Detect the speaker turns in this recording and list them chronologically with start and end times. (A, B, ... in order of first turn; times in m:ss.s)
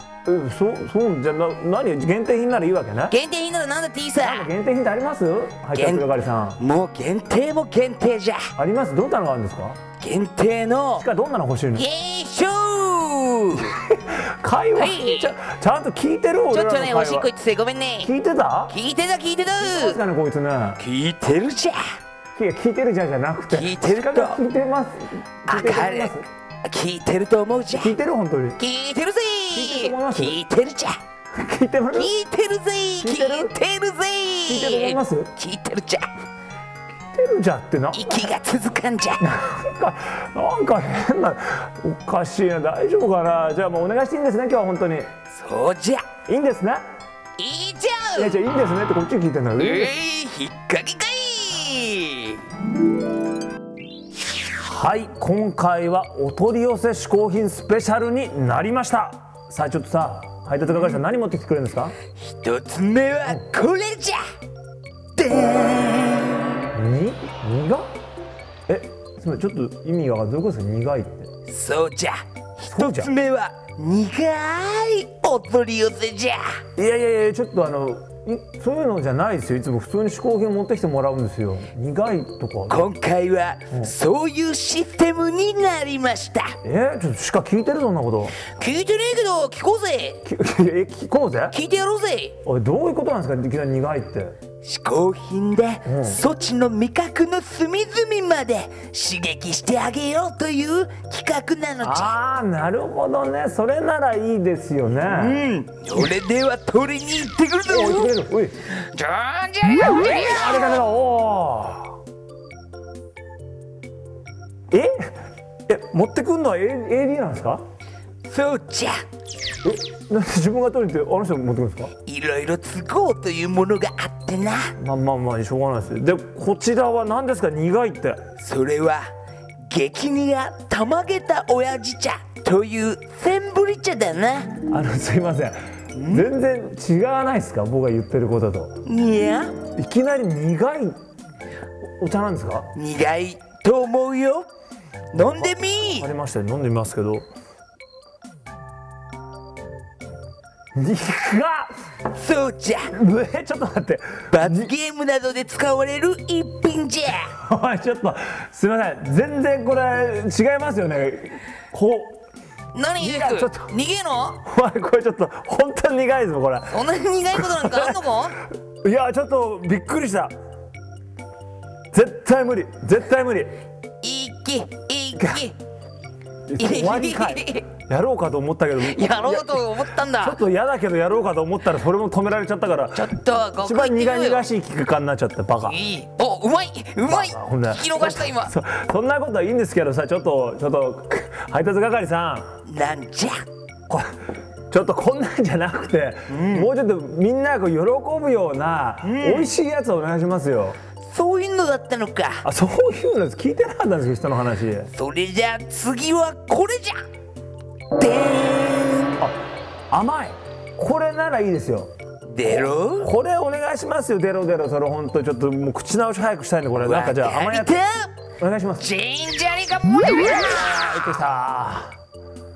0:00.2-0:03.2 A
0:03.1-0:04.5 B
0:04.2-0:06.6 A
0:05.7-0:08.4 B
0:08.6-0:09.8 A
0:10.0-0:11.0 B
0:11.0-0:11.8 A
0:11.7-0:13.7 B
0:13.6-0:17.3 A
0:14.8-0:15.3 B
0:16.5-0:18.1 B
0:18.0-0:18.8 A
0:18.7-0:20.0 B
0:19.6-0:20.8 A
0:20.8-0:21.8 B
0:22.3-0:26.3 A
0:23.5-0:24.4 B
0:25.5-0:28.0 B
0:27.8-0:28.6 A
0:28.6-0:31.0 B
0:29.5-0:30.4 A
0:31.3-0:32.1 A
0:31.9-0:36.1 B
0:33.0-0:33.5 A
0:34.4-0:35.3 A
0:37.1-0:38.3 A
0:37.9-0:39.2 B
0:39.2-0:45.1 A
0:45.3-0:46.0 B
0:46.3-0:46.8 A
0:47.4-0:48.4 B
0:48.2-0:49.9 A
0:49.6-0:52.4 B
0:54.6-1:02.0 A
1:02.2-1:04.2 B
1:05.2-1:06.5 B
1:06.7-1:07.9 A
1:08.7-1:11.3 A
1:11.5-1:16.6 B
1:12.7-1:13.1 A
1:16.8-1:22.9 A
1:22.7-1:26.5 B
1:26.6-1:28.4 A
1:28.4-1:30.2 B
1:30.2-1:31.6 A
1:31.5-1:32.4 B
1:32.4-1:34.4 A
1:34.6-1:42.2 B
1:35.8-1:36.2 A
1:41.8-1:45.4 A
1:45.0-1:48.1 B
1:47.7-1:48.6 A
1:48.8-1:50.8 B
1:50.0-1:52.0 A
1:54.7-1:55.1 A
1:55.7-1:57.6 A
1:58.3-1:59.0 B
1:59.6-2:01.9 A
2:02.0-2:04.7 B
2:04.8-2:08.2 A
2:08.4-2:09.0 B
2:09.6-2:14.6 B
2:14.7-2:18.8 A
2:15.9-2:16.3 B
2:18.8-2:19.6 B
2:19.7-2:21.0 A
2:22.0-2:22.7 A
2:22.7-2:24.4 B
2:25.1-2:26.1 B
2:25.1-2:27.2 A
2:30.7-2:31.7 A
2:32.1-2:32.9 B
2:32.9-2:34.7 A
2:34.3-2:37.3 B
2:37.3-2:42.2 A
2:42.7-2:44.4 B
2:43.0-2:43.7 A
2:44.4-2:48.0 A
2:46.7-2:48.4 B
2:48.8-2:50.3 A
2:51.9-2:53.6 A
2:54.0-2:55.6 B
2:55.2-2:55.4 A
2:56.5-3:05.8 A
2:56.6-2:57.7 B
2:58.8-3:00.4 B
3:02.9-3:04.5 B
3:05.6-3:08.5 B
3:07.1-3:12.6 A
3:12.6-3:13.4 B
3:14.7-3:20.8 A
3:16.3-3:16.7 B
3:19.0-3:19.5 B
3:21.0-3:22.4 B
3:22.4-3:24.9 A
3:24.9-3:27.0 B
3:28.0-3:29.2 B
3:29.9-3:31.9 A
3:32.2-3:33.1 B
3:32.4-3:37.8 A
3:36.7-3:38.1 B
3:38.4-3:38.9 A
3:38.8-3:40.7 B
3:40.4-3:42.0 A